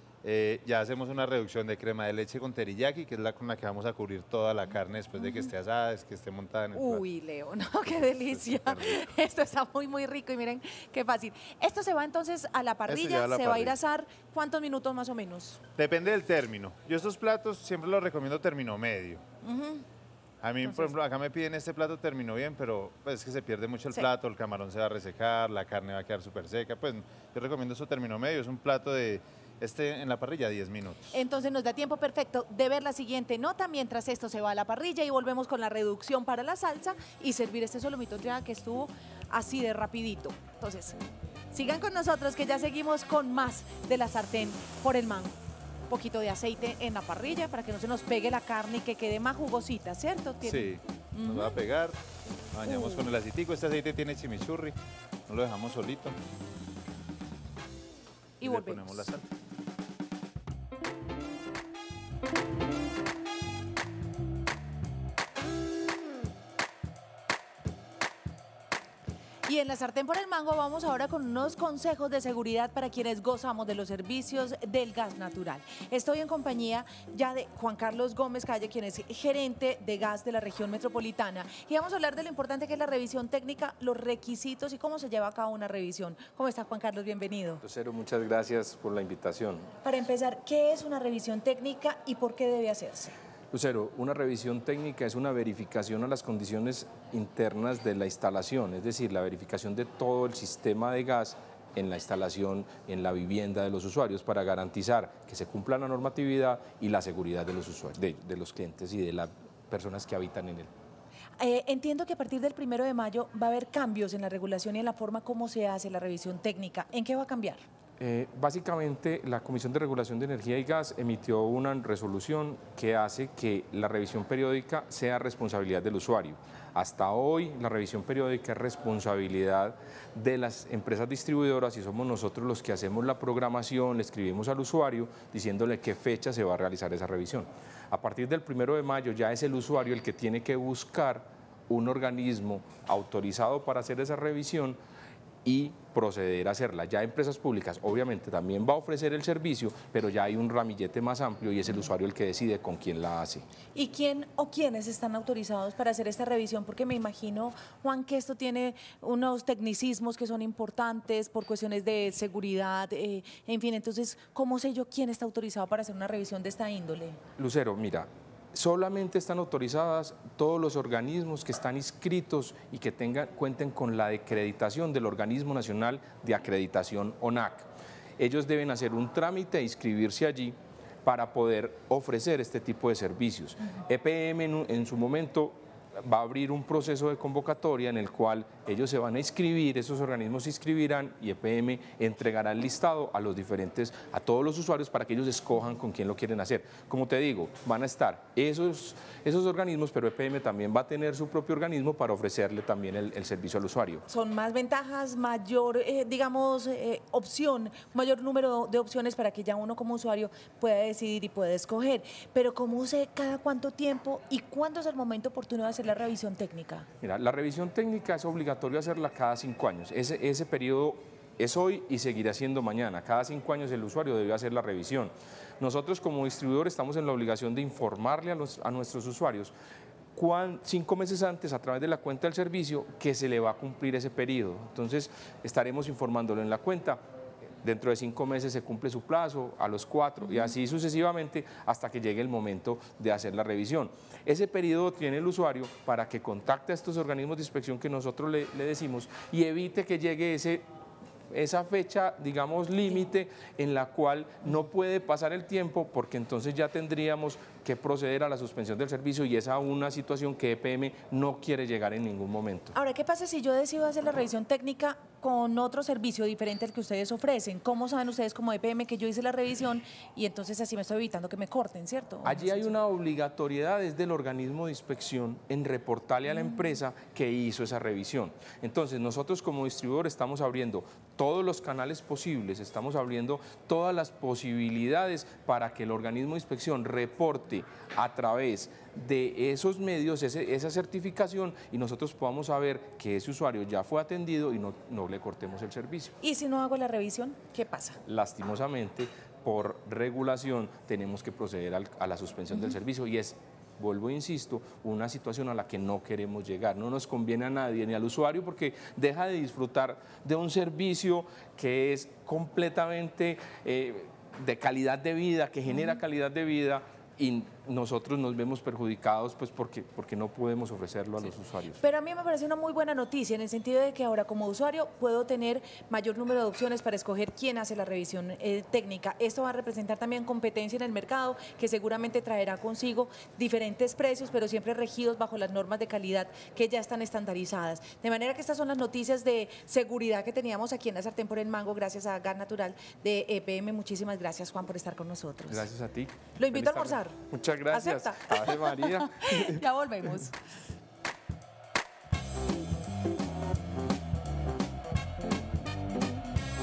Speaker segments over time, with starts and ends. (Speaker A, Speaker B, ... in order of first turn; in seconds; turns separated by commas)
Speaker A: 0.2-7.0, Speaker B: 5.2-5.5, Speaker B: 6.7-15.6, Speaker A: 8.2-9.1, Speaker A: 12.9-13.8, Speaker A: 15.8-19.2, Speaker B: 19.4-19.9, Speaker A: 20.4-31.2, Speaker B: 20.6-20.9, Speaker B: 31.1-41.0, Speaker B: 41.5-45.4, Speaker B: 45.9-51.6, Speaker A: 50.4-52.0, Speaker A: 52.5-56.2, Speaker B: 52.6-53.1, Speaker B: 58.4-59.1, Speaker A: 58.4-59.2, Speaker B: 69.5-87.6, Speaker C: 87.6-89.7, Speaker B: 89.8-93.2, Speaker C: 93.5-110.7, Speaker B: 111.4-117.6, Speaker C: 118.0-144.8, Speaker C: 145.4-153.5, Speaker B: 153.7-167.2, Speaker C: 167.4-204.0, Speaker B: 204.1-216.9, Speaker C: 217.0-229.5, Speaker C: 230.2-237.0, Speaker C: 237.6-250.7, Speaker C: 251.3-262.7, Speaker B: 262.7-272.7, Speaker C: 272.2-296.1, Speaker B: 296.2-298.0, Speaker C: 298.1-321.8, Speaker B: 321.8-345.7, Speaker C: 345.5-349.6, Speaker B: 346.4-347.2, Speaker B: 347.7-350.4